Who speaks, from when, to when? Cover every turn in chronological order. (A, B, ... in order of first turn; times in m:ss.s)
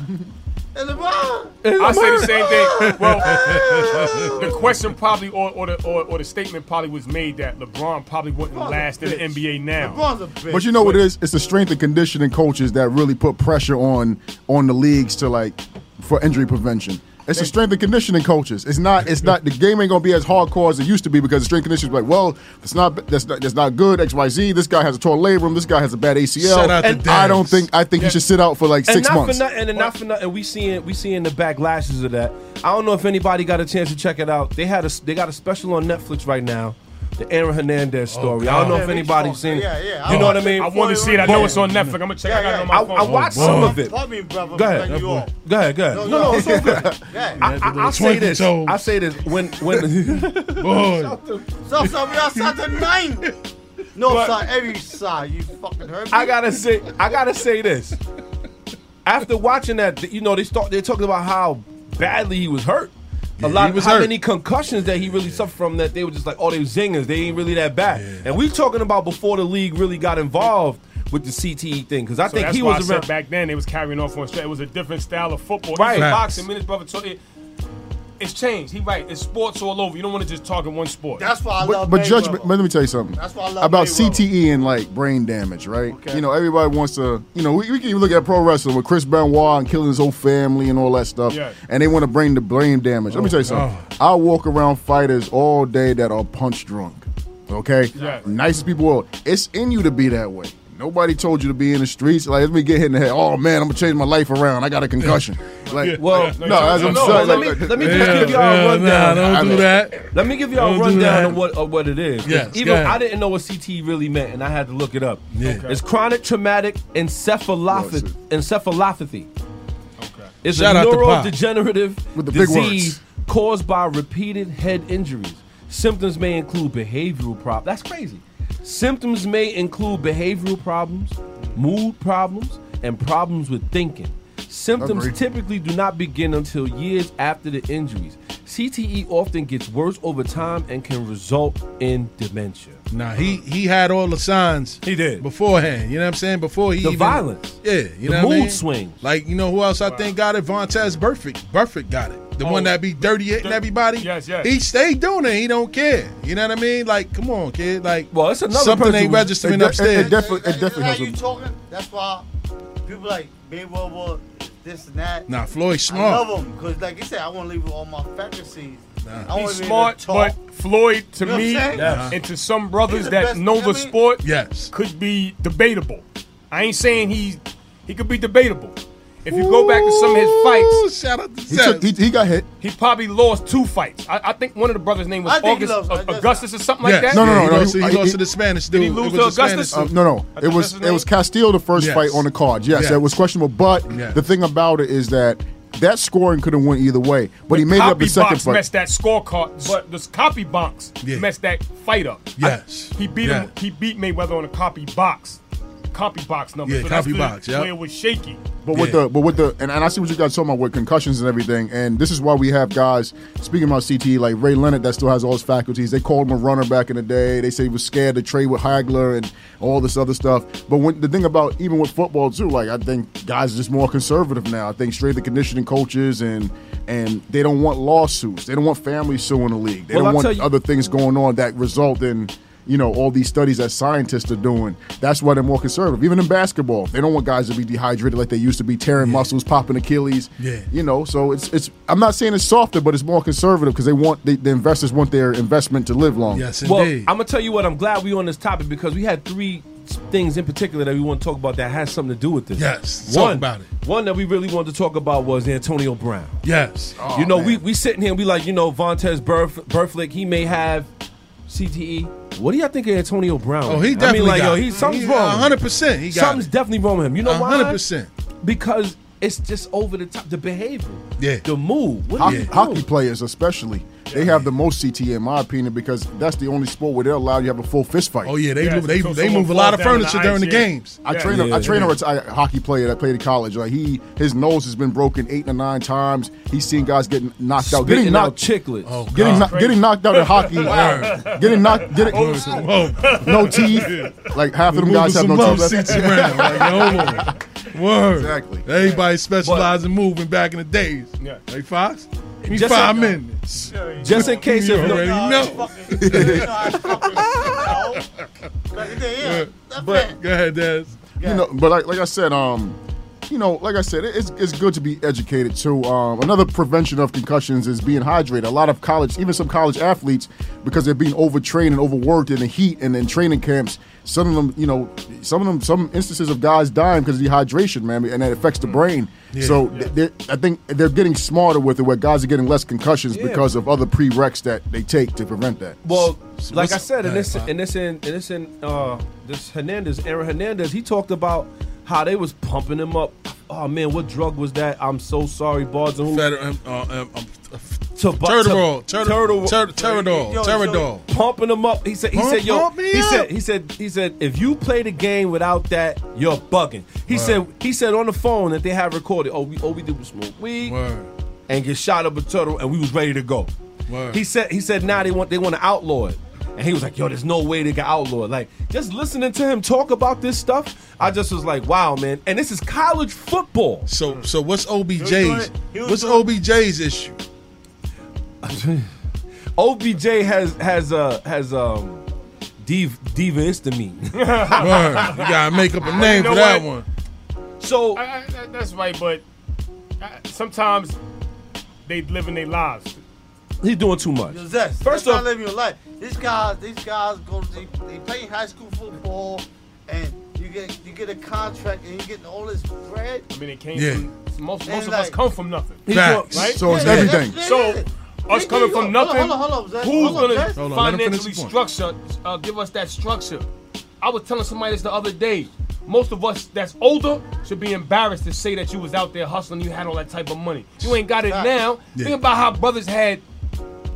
0:00.7-0:04.7 A
0:01.6-0:03.4 B
0:01.8-0:10.0 C
0:02.8-0:04.5 D
0:08.5-0:11.0 A
0:10.5-0:29.4 E
0:26.4-0:27.7 D
0:26.8-0:27.1 B
0:28.9-0:41.7 B
0:38.1-0:39.0 D
0:38.6-0:41.7 A
0:40.1-0:40.4 D
0:40.3-0:43.3 C
0:42.2-0:45.3 A
0:42.7-0:44.0 B
0:43.0-0:43.8 D
0:44.5-0:51.5 B
0:44.9-0:45.2 D
0:45.9-0:47.5 A
0:46.3-0:47.0 E
0:47.4-0:49.0 D
0:50.6-0:51.2 D
0:51.6-0:53.3 A
0:51.8-0:52.8 D
0:54.0-0:56.4 A
0:54.1-0:54.3 B
0:56.1-0:58.0 B
0:59.0-1:13.1 B
1:03.4-1:04.1 D
1:04.9-1:05.4 D
1:07.9-1:08.3 D
1:12.3-1:17.2 C
1:15.7-1:16.1 B
1:15.9-1:16.4 D
1:18.2-1:21.3 C
1:21.2-1:22.5 A
1:21.6-1:48.5 E
1:23.2-1:24.3 A
1:25.9-1:26.2 A
1:31.3-1:31.6 C
1:33.2-1:33.9 D
1:38.0-1:38.3 C
1:38.0-1:38.3 A
1:45.8-1:51.4 D
1:46.0-1:59.3 B
1:46.4-1:47.6 C
1:49.2-1:49.7 E
1:52.2-1:53.0 D
1:55.4-1:55.7 D
1:55.4-1:55.8 C
1:57.7-1:58.1 E
2:00.0-2:00.4 C
2:00.4-2:22.8 B
2:00.4-2:01.4 D
2:02.2-2:03.0 E
2:14.8-2:15.1 E
2:22.9-2:40.2 D
2:24.8-2:25.3 B
2:26.8-2:29.0 B
2:29.8-2:30.1 C
2:32.4-2:34.5 C
2:38.1-2:39.4 B
2:39.4-2:41.2 E
2:39.9-2:42.3 A
2:42.8-2:45.3 A
2:45.3-2:46.3 D
2:45.9-2:50.4 A
2:49.0-2:49.3 D
2:49.3-3:00.8 C
2:51.2-2:52.1 A
2:51.7-2:52.2 B
2:51.8-2:52.2 D
2:52.9-2:54.0 A
2:54.2-2:54.7 D
2:59.3-3:01.9 D
3:01.5-3:02.5 E
3:02.6-3:07.3 C
3:05.2-3:06.4 A
3:06.8-3:09.9 D
3:07.1-3:08.2 E
3:08.7-3:11.1 C
3:09.7-3:18.6 E
3:11.8-3:13.0 D
3:13.9-3:14.2 D
3:17.5-3:25.4 C
3:21.0-3:21.3 D
3:22.4-3:23.5 D
3:25.9-3:28.4 C
3:26.6-3:27.7 D
3:28.6-4:06.5 E
3:28.7-3:29.0 D
3:49.9-3:50.5 B
3:59.0-3:59.3 D
4:00.4-4:00.7 D
4:06.3-4:07.1 D
4:06.6-4:16.4 B
4:12.6-4:13.7 D
4:16.4-4:17.1 D
4:17.0-4:17.6 E
4:17.1-4:20.9 B
4:21.5-4:27.8 B
4:23.7-4:26.5 D
4:27.2-4:28.1 D
4:28.4-4:32.9 B
4:31.2-4:31.5 D
4:32.2-4:38.3 E
4:32.2-4:32.5 D
4:34.1-4:34.3 C
4:38.2-4:41.8 D
4:38.6-4:41.4 C
4:41.0-4:48.4 E
4:41.3-4:41.9 B
4:47.6-4:49.2 B
4:48.8-4:49.6 D
4:49.1-4:52.5 E
4:49.2-4:54.3 C
4:50.6-5:07.8 D
4:53.2-4:57.3 E
4:58.1-4:58.6 E
4:59.4-4:59.7 B
5:02.4-5:03.2 B
5:03.5-5:08.1 A
5:04.0-5:05.3 B
5:06.0-5:06.5 E
5:08.7-5:10.2 A
5:09.2-5:11.0 D
5:11.2-5:11.5 A
5:11.2-5:36.0 E
5:29.3-5:29.6 D
5:33.1-5:33.5 B
5:35.8-5:46.2 B
5:36.4-5:37.5 D
5:46.1-5:51.0 D
5:48.0-5:49.6 B
5:49.7-5:50.9 A
5:51.1-6:00.8 B
5:52.1-5:53.3 D
5:57.1-5:57.4 D
6:00.6-6:01.1 D
6:01.5-6:03.5 B
6:03.9-6:04.2 D
6:04.1-6:13.9 B
6:13.9-6:17.2 D
6:15.0-6:16.4 A
6:18.4-6:18.9 B
6:19.6-6:22.0 B
6:22.6-6:24.4 B
6:24.2-6:26.7 C
6:24.6-6:26.9 D
6:25.8-6:26.4 A
6:27.6-6:28.0 B
6:28.0-6:29.2 C
6:30.0-6:31.0 C
6:31.9-6:33.0 C
6:33.6-6:35.3 B
6:34.3-6:43.3 A
6:43.3-6:46.6 C
6:43.7-6:44.1 D
6:44.7-6:45.2 A
6:45.9-6:46.8 B
6:45.9-6:47.2 D
6:46.5-6:47.4 E
6:46.6-6:50.6 A
6:47.4-6:53.5 C
6:49.9-6:51.5 D
6:54.0-7:03.2 C
7:01.3-7:01.5 A